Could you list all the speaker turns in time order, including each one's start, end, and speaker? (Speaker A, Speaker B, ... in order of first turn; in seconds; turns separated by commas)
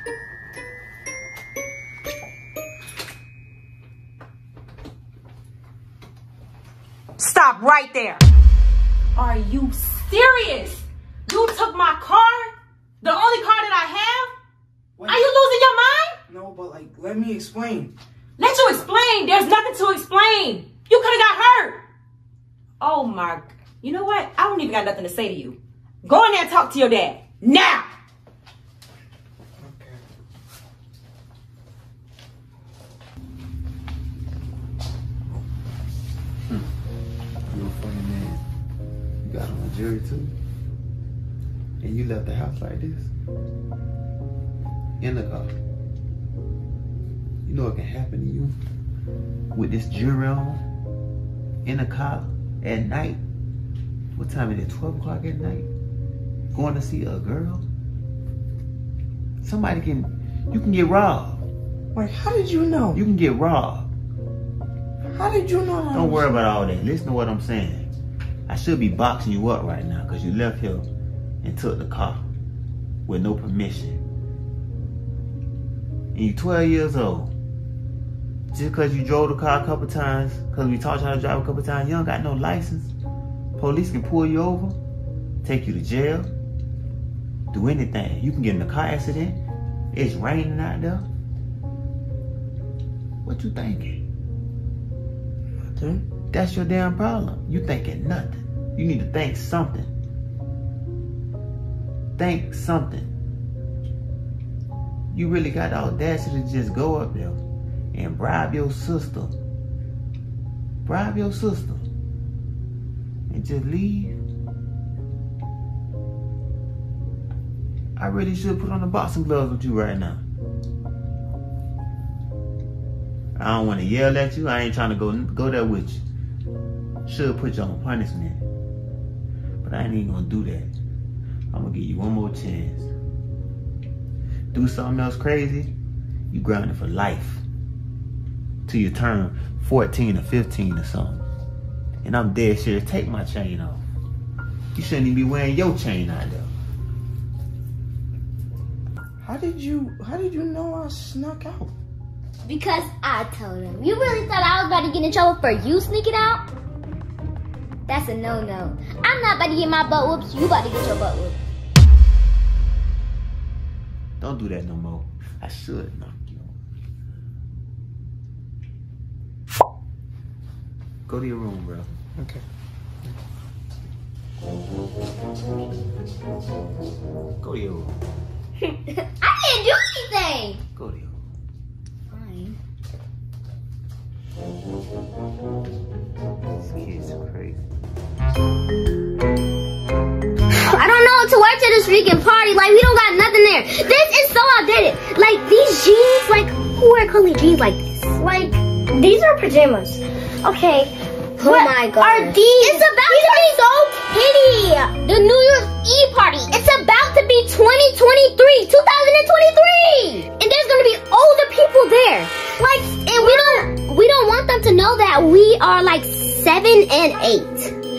Speaker A: 7.2-8.2, Speaker A: 9.2-14.3, Speaker B: 15.0-15.3, Speaker A: 15.1-16.2, Speaker B: 16.3-17.9, Speaker A: 18.4-21.8, Speaker A: 22.8-27.9, Speaker B: 29.6-30.0, Speaker C: 37.5-38.4, Speaker C: 39.2-40.3, Speaker C: 41.8-43.1, Speaker C: 45.0-45.5, Speaker C: 47.5-48.6, Speaker C: 49.5-50.6, Speaker C: 51.6-53.2, Speaker C: 54.1-55.7, Speaker C: 56.5-57.6, Speaker C: 59.4-61.4, Speaker B: 61.9-63.0, Speaker C: 62.9-63.9, Speaker B: 65.0-66.4, Speaker C: 65.9-67.9, Speaker C: 68.5-70.9, Speaker C: 71.4-72.2, Speaker C: 73.1-74.0, Speaker C: 76.1-77.3, Speaker C: 78.5-82.9, Speaker C: 83.6-84.8, Speaker C: 85.4-86.3, Speaker C: 87.5-89.4, Speaker C: 89.9-91.1, Speaker C: 93.2-94.0, Speaker B: 95.6-96.0, Speaker C: 96.3-99.9, Speaker C: 102.2-103.1, Speaker C: 105.1-107.4, Speaker C: 107.9-109.3, Speaker C: 110.8-111.9, Speaker C: 113.3-114.2, Speaker C: 118.0-120.2, Speaker C: 123.3-126.0, Speaker C: 127.0-128.4, Speaker C: 129.6-130.7, Speaker C: 131.5-132.9, Speaker C: 134.5-135.7, Speaker C: 136.3-137.4, Speaker C: 138.7-141.2, Speaker C: 142.0-143.8, Speaker C: 144.7-146.5, Speaker B: 149.2-151.7, Speaker D: 152.4-156.4, Speaker D: 157.9-161.4, Speaker C: 164.2-166.6, Speaker C: 171.1-171.9, Speaker B: 172.1-172.4, Speaker C: 177.4-178.0, Speaker D: 179.0-180.6, Speaker C: 180.8-181.2, Speaker D: 182.1-182.6, Speaker C: 186.6-187.6, Speaker D: 190.6-198.2, Speaker E: 198.2-204.9, Speaker D: 201.4-217.7, Speaker E: 212.6-213.7